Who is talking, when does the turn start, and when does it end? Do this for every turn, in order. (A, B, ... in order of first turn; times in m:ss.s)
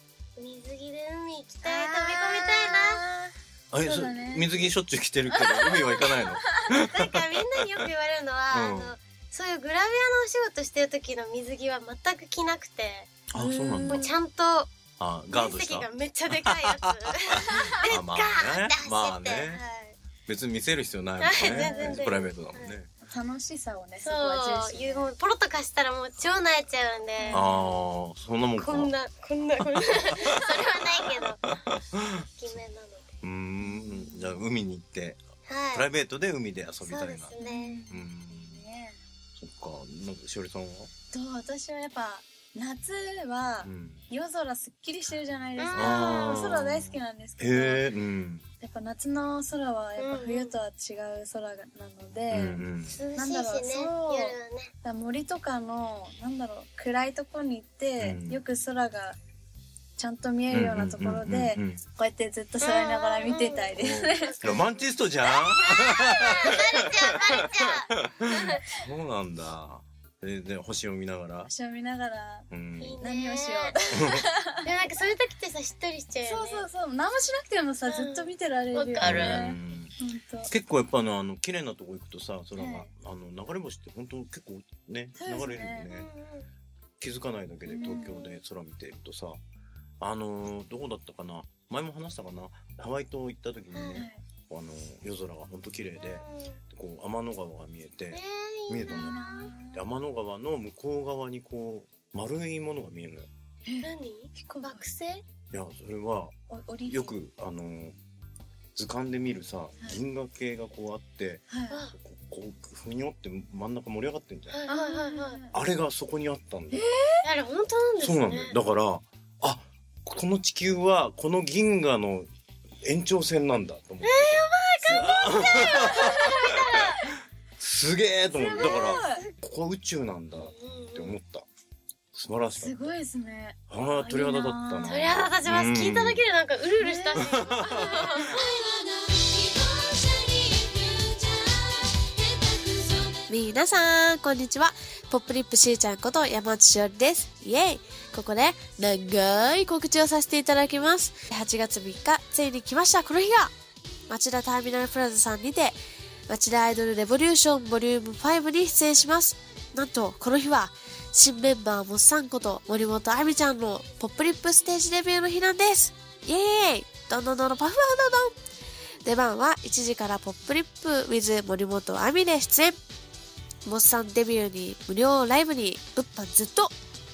0:00.4-0:03.0 A
0:01.6-0:04.6 B
0:03.7-0:07.8 C
0:05.3-0:06.6 B
0:06.9-0:13.1 A
0:08.5-0:08.9 C
0:13.3-0:14.0 C
0:13.3-0:14.1 B
0:13.9-0:14.7 A
0:15.0-0:19.6 C
0:15.3-0:20.0 A
0:20.2-0:22.9 C
0:21.2-0:22.8 A
0:21.4-0:22.1 B
0:23.0-0:25.1 B
0:24.0-0:27.5 A
0:27.2-0:27.8 B
0:27.3-0:28.9 C
0:28.6-0:31.4 A
0:31.5-0:32.1 C
0:32.4-0:33.1 A
0:33.2-0:35.2 C
0:33.6-0:34.4 B
0:35.5-0:35.8 A
0:35.7-0:37.3 C
0:36.8-0:37.8 A
0:37.4-0:39.0 B
0:37.9-0:38.6 C
0:39.4-0:40.9 C
0:41.1-0:47.9 B
0:43.6-0:44.0 C
0:45.6-0:46.6 A
0:45.7-0:48.4 C
0:48.6-0:59.2 B
0:50.0-0:50.6 A
0:52.3-0:53.0 C
0:52.9-0:54.7 A
0:58.0-0:58.4 C
1:00.0-1:04.6 B
1:00.5-1:01.8 C
1:02.6-1:03.7 A
1:03.7-1:07.3 C
1:04.2-1:07.9 A
1:08.0-1:11.5 C
1:11.5-1:12.5 B
1:12.5-1:13.0 C
1:12.8-1:13.9 A
1:13.0-1:14.6 B
1:14.0-1:14.2 C
1:14.6-1:16.7 A
1:16.2-1:20.5 B
1:17.8-1:19.5 A
1:19.0-1:26.1 C
1:22.6-1:22.9 B
1:25.2-1:25.9 B
1:25.9-1:26.5 A
1:27.0-1:29.4 C
1:27.7-1:28.1 B
1:28.0-1:28.4 A
1:30.0-1:39.2 C
1:33.7-1:34.0 A
1:33.9-1:34.2 B
1:36.0-1:36.6 A
1:38.1-1:39.5 A
1:38.9-1:39.8 B
1:39.7-1:43.3 C
1:43.6-1:44.8 B
1:43.8-1:45.2 A
1:45.5-1:46.3 C
1:46.5-1:47.2 B
1:46.8-1:48.0 C
1:48.8-1:54.6 C
1:51.5-1:51.8 B
1:51.7-1:51.9 A
1:54.5-1:55.4 A
1:54.6-1:55.5 B
1:55.5-1:56.8 C
1:56.7-1:57.2 B
1:57.2-1:58.6 A
1:58.0-2:02.3 C
2:02.8-2:06.5 C
2:04.0-2:07.1 A
2:04.8-2:06.2 B
2:07.6-2:11.4 C
2:08.4-2:09.2 B
2:08.4-2:09.3 A
2:10.4-2:11.2 A
2:12.1-2:13.0 C
2:12.6-2:15.2 B
2:13.7-2:16.2 C
2:14.8-2:18.4 A
2:16.8-2:18.3 B
2:17.1-2:18.1 C
2:18.3-2:33.5 D
2:34.1-2:35.8 D
2:36.3-2:48.4 D
2:49.0-2:52.8 D
2:53.6-2:56.7 D